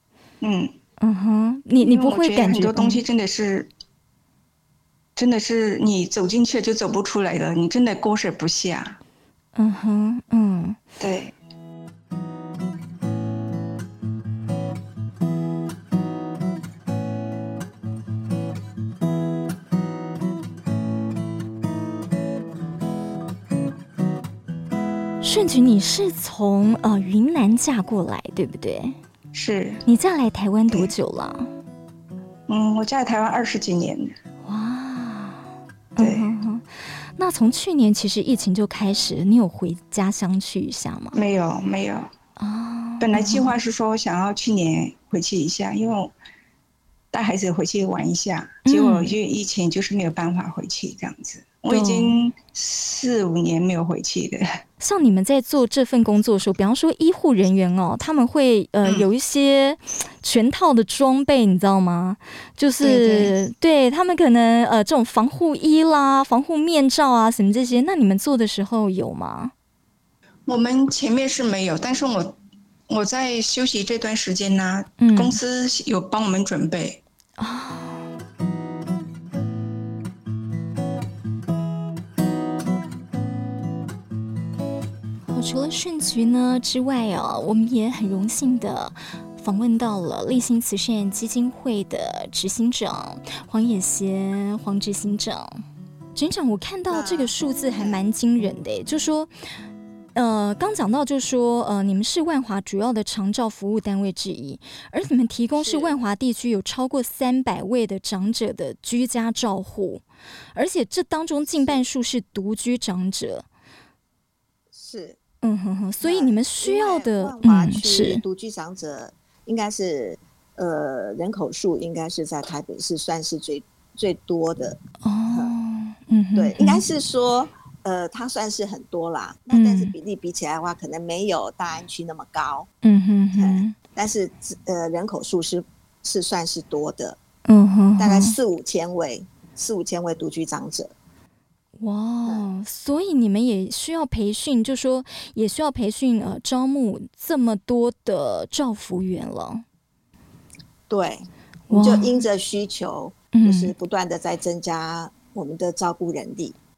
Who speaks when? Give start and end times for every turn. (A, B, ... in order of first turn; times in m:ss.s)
0:00.4-0:00.7 A
0:01.0-0:03.0 B
0:01.8-0:03.7 A
0:05.2-0:09.0 A
0:09.6-0:10.8 B
0:11.0-0:11.3 A
0:25.2-0:29.0 B
0:29.3-0:29.8 A
0:29.8-0:31.5 B
0:32.5-0:34.1 A
0:34.4-0:36.6 B
0:36.0-0:36.3 A
0:37.2-0:41.2 B
0:41.1-0:42.1 A
0:42.4-0:43.5 B
0:43.0-0:46.1 A
0:47.1-0:54.4 A
0:48.6-0:49.1 B
0:51.7-0:52.2 B
0:54.8-1:09.5 B
1:02.8-1:03.3 A
1:10.5-1:12.4 A
1:12.9-1:17.0 A
1:15.0-1:15.4 B
1:17.4-1:18.1 B
1:25.3-1:35.6 B
1:36.1-1:39.3 B
1:36.9-1:38.0 C
1:40.1-1:50.0 B
1:45.6-1:46.0 C
1:50.5-1:53.4 B
1:51.4-1:51.8 C
1:54.7-1:55.2 C
1:55.4-1:58.2 B
1:56.0-2:04.8 C
2:05.0-2:06.8 B
2:06.3-2:12.7 C
2:09.5-2:09.9 B
2:12.8-2:13.7 B
2:13.4-2:17.2 C
2:17.4-2:18.3 B
2:18.0-2:20.9 C
2:21.8-2:29.6 B
2:30.9-2:36.6 C
2:31.7-2:32.2 B
2:33.3-2:33.7 B